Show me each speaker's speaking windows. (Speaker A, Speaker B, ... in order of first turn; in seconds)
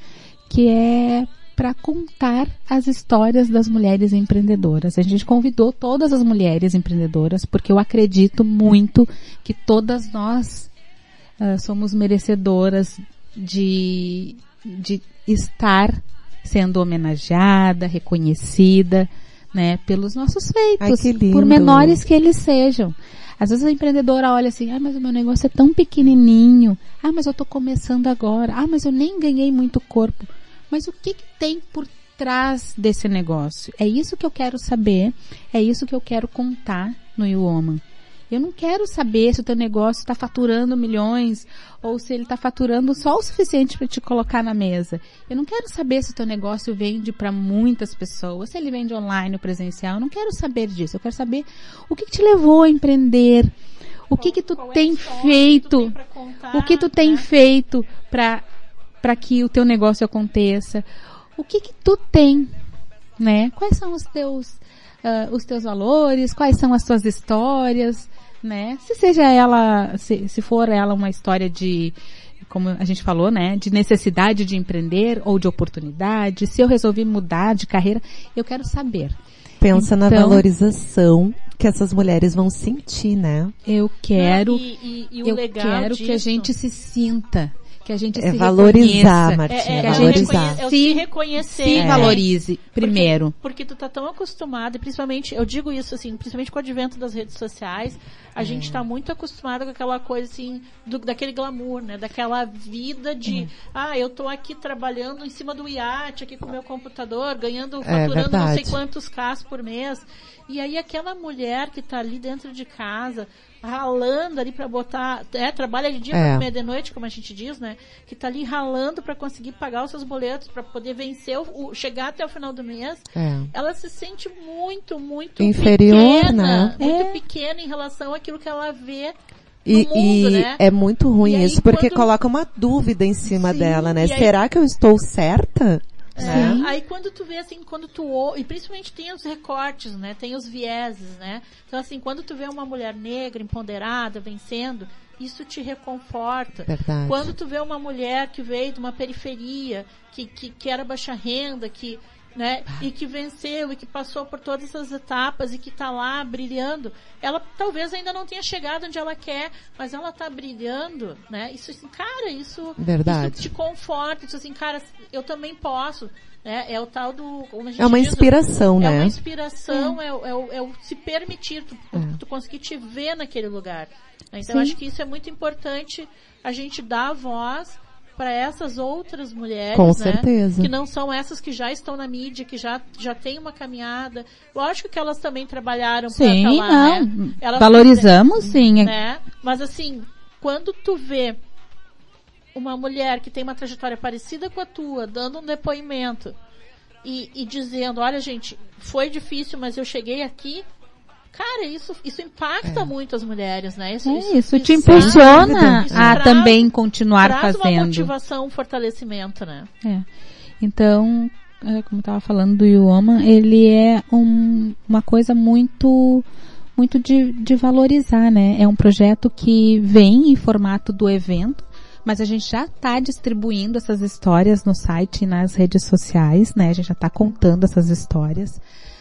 Speaker A: 0.5-10.7, 11.4-53.5, 54.1-56.0, 56.5-58.4, 59.0-62.6, 63.2-79.2, 79.7-80.5, 83.7-84.6, 85.2-93.3, 126.8-127.2, 136.2-136.7, 169.7-170.0, 174.4-174.8, 186.1-188.9, 204.0-208.1, 210.6-216.2, 216.8-228.6
Speaker B: 20.8-22.0, 79.6-83.5, 88.2-90.6, 91.7-92.2, 98.4-98.8, 107.8-108.8, 116.1-116.5, 123.1-123.5, 125.4-126.8, 129.7-136.6, 146.7-147.3, 162.8-163.5, 167.8-169.2, 171.9-172.2, 179.7-180.7, 202.6-202.9, 204.8-206.3
Speaker C: 54.2-57.3, 84.1-86.5, 89.5-92.2, 92.8-129.1, 129.7-130.6, 131.2-132.1, 133.3-134.3, 136.2-191.4, 192.5-196.3, 197.0-200.7, 201.3-206.7, 207.2-209.7